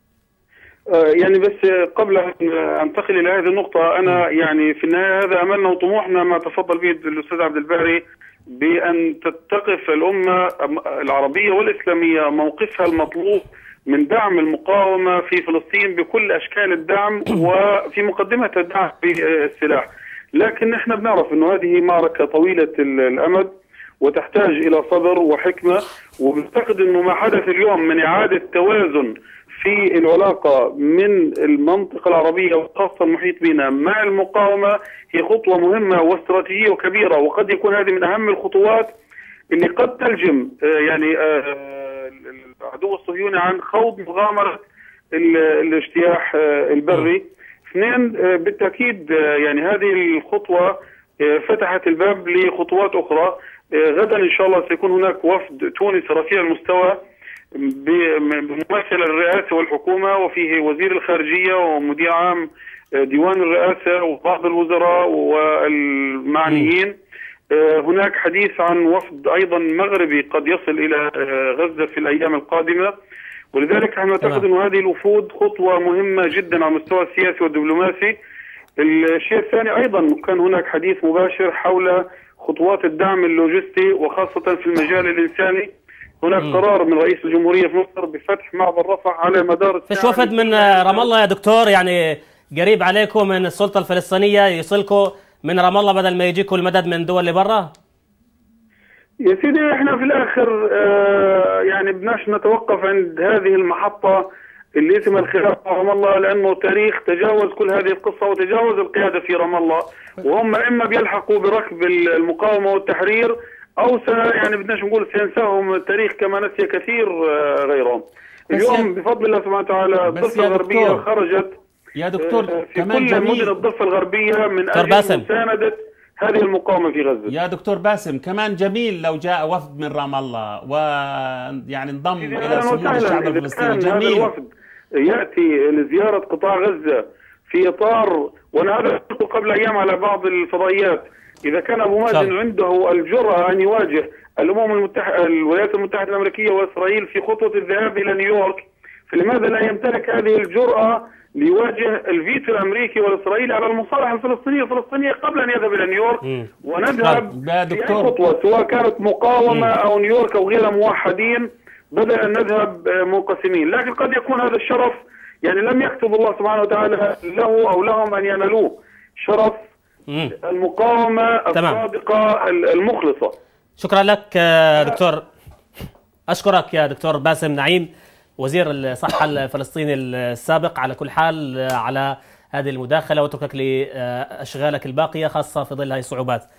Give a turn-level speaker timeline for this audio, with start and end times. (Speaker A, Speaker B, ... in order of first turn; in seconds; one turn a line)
Speaker A: 0.9-38.9
Speaker A: 39.5-44.6
Speaker A: 45.1-57.0
Speaker A: 57.5-67.0
Speaker A: 67.5-72.9
Speaker A: 73.5-78.2
Speaker A: 78.8-85.7
Speaker A: 86.2-91.1
Speaker B: 89.9-97.7
Speaker A: 99.2-121.6
Speaker C: 118.5-118.9
Speaker C: 120.1-121.1
Speaker C: 122.0-123.5
Speaker A: 122.2-127.3
Speaker B: 124.7-125.3
Speaker C: 127.3-134.3
Speaker A: 132.2-169.6
Speaker C: 157.0-158.2
Speaker B: 170.1-170.3
Speaker A: 170.4-173.4
Speaker B: 171.5-171.8
Speaker B: 173.8-175.2
Speaker B: 176.3-186.4